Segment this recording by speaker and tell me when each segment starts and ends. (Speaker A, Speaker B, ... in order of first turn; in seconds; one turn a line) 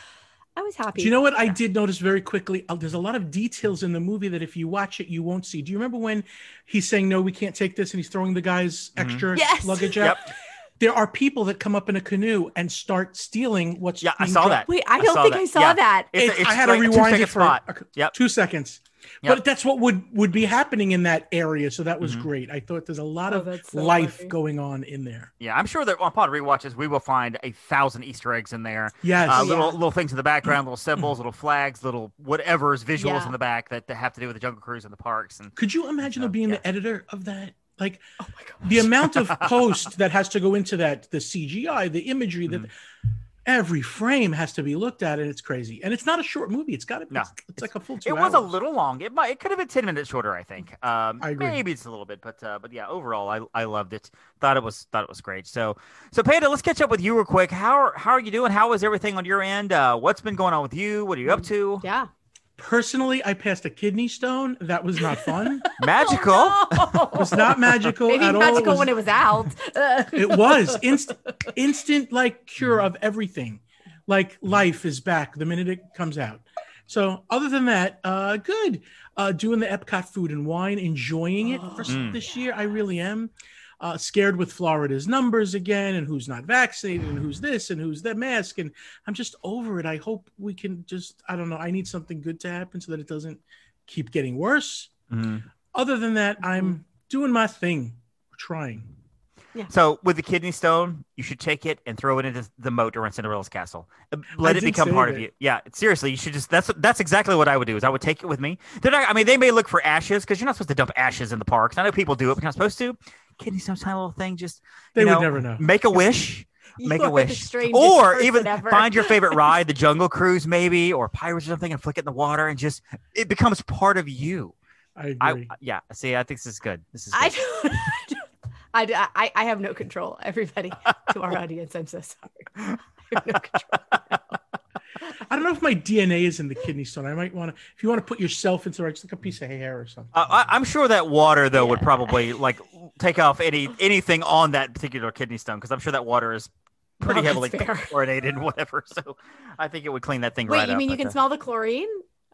Speaker A: 0.6-1.1
Speaker B: 1.0-14.7
Speaker C: 9.0-9.3
Speaker A: 9.3-10.0
Speaker C: 14.0-18.1
Speaker A: 14.7-16.1
Speaker B: 16.1-25.3
Speaker C: 22.0-22.3
Speaker A: 23.3-24.3
Speaker C: 25.4-36.6
Speaker B: 29.0-29.5
Speaker A: 29.3-29.8
Speaker A: 33.0-33.4
Speaker B: 35.5-38.0
Speaker A: 38.2-38.6
Speaker B: 38.6-42.7
Speaker C: 39.0-39.6
Speaker B: 43.5-48.5
Speaker C: 47.1-61.8
Speaker B: 51.2-51.6
Speaker A: 61.3-62.1
Speaker B: 62.6-65.7
Speaker A: 65.2-71.5
Speaker C: 65.8-67.1
Speaker B: 67.2-69.0
Speaker B: 70.1-94.9
Speaker C: 81.9-82.2
Speaker C: 95.1-95.5
Speaker B: 95.7-98.9
Speaker C: 99.7-124.5
Speaker B: 104.4-105.3
Speaker B: 115.0-115.7
Speaker A: 116.8-119.5
Speaker B: 125.0-125.5
Speaker C: 125.2-127.9
Speaker A: 127.1-134.2
Speaker B: 135.3-140.1
Speaker C: 140.1-146.5
Speaker A: 141.6-142.2
Speaker A: 147.0-147.9
Speaker C: 147.0-151.2
Speaker A: 150.5-152.0